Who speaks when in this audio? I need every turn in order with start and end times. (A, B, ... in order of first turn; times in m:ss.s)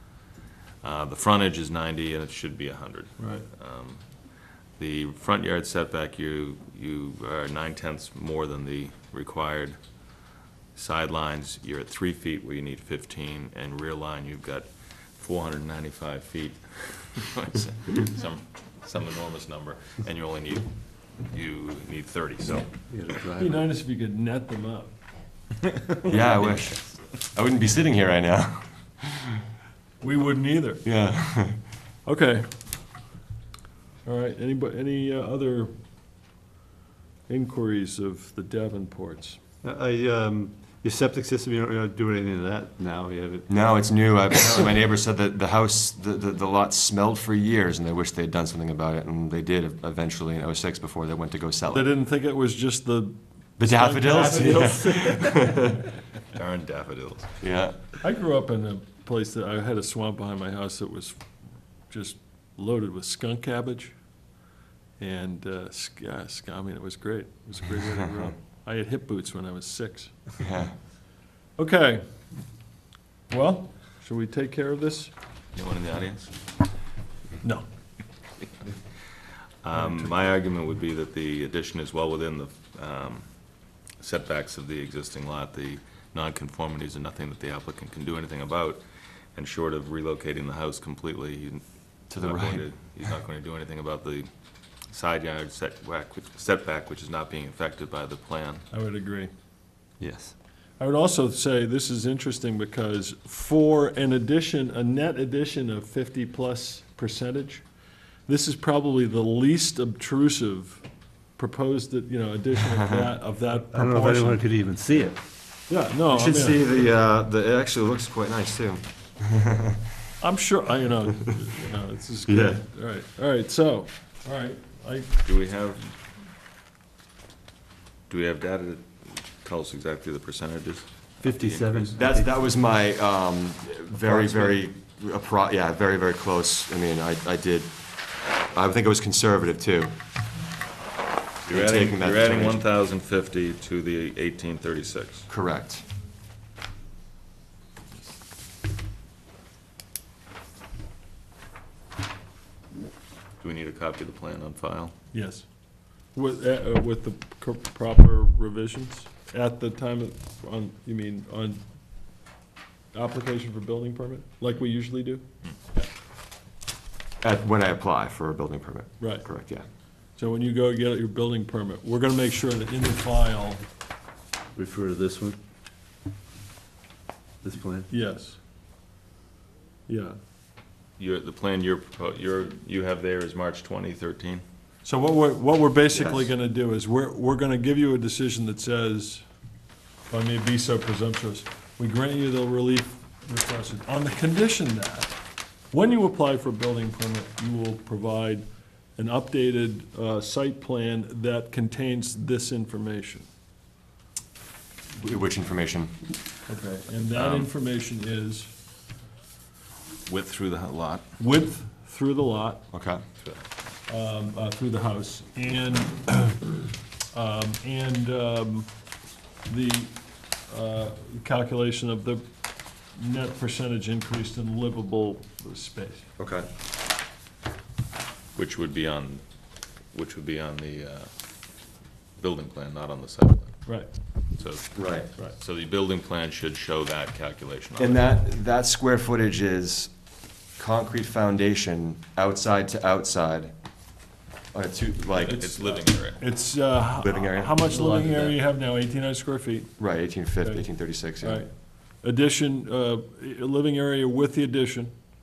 0:00.8-0:04.0 A
0:03.2-0:03.5 B
0:04.8-0:09.8 A
0:10.8-0:20.7 A
0:21.2-0:22.7 A
0:22.9-0:23.6 C
0:23.4-0:24.9 B
0:26.0-0:29.3 D
0:30.0-0:30.8 B
0:30.8-0:31.6 D
0:32.1-0:32.5 B
0:34.0-0:35.7 B
0:37.3-0:39.4 B
0:39.6-0:43.5 C
0:43.5-0:51.9 D
0:51.7-0:55.3 B
0:53.6-0:55.8 D
0:54.5-0:55.1 C
0:56.3-0:57.4 A
0:57.4-0:57.8 D
0:58.0-1:01.2 B
1:01.9-1:03.9 B
1:05.0-1:10.3 B
1:10.4-1:10.7 D
1:11.6-1:12.0 B
1:13.3-1:15.1 B
1:15.6-1:16.3 A
1:19.6-1:23.2 A
1:24.0-1:28.8 A
1:29.4-1:31.6 A
1:32.1-1:32.7 D
1:32.2-1:34.3 A
1:34.9-1:38.6 A
1:38.7-1:39.3 B
1:40.0-1:40.4 C
1:40.8-1:47.6 B
1:48.3-1:50.8 B
1:51.4-1:54.4 B
1:52.7-1:53.0 D
1:53.7-1:55.2 C
1:55.7-1:56.8 B
1:56.1-1:59.8 D
2:00.2-2:05.1 B
2:02.3-2:02.6 D
2:05.2-2:05.8 A
2:08.1-2:11.9 A
2:11.2-2:12.5 C
2:12.0-2:17.7 D
2:14.1-2:14.5 C
2:18.5-2:19.9 D
2:21.5-2:25.3 A
2:21.5-2:22.6 D
2:25.3-2:25.8 D
2:33.4-2:34.9 A
2:35.1-2:35.5 B
2:36.2-2:41.6 B
2:42.9-2:45.2 B
2:47.2-2:49.6 D
2:49.0-2:49.3 B
2:50.2-2:53.6 B
2:54.6-2:55.4 C
2:57.4-2:57.9 C
2:57.9-2:58.4 B
2:59.9-3:00.2 B
3:01.0-3:04.4 A
3:04.8-3:09.2 B
3:05.9-3:06.3 D
3:10.1-3:15.1 B
3:15.7-3:23.3 B
3:25.0-3:25.9 D
3:26.5-3:28.5 B
3:27.1-3:27.5 A
3:30.1-3:31.0 A
3:31.2-3:32.6 B
3:32.7-3:33.0 D
3:33.9-3:36.6 B
3:37.1-3:38.7 B
3:39.5-3:39.9 B
3:40.5-3:42.2 B
3:43.0-3:46.1 B
3:46.2-3:46.5 D
3:48.4-3:49.2 A
3:49.9-3:51.1 A
3:52.2-3:53.6 A
3:54.4-3:58.0 A
3:54.8-3:55.1 D
3:57.8-3:59.9 D
4:00.6-4:03.5 D
4:04.5-4:05.6 D
4:05.2-4:06.2 A
4:06.2-4:09.7 B
4:07.0-4:07.7 D
4:07.7-4:08.3 C
4:09.8-4:11.4 D
4:10.4-4:10.7 B
4:11.2-4:11.5 B
4:12.0-4:14.9 B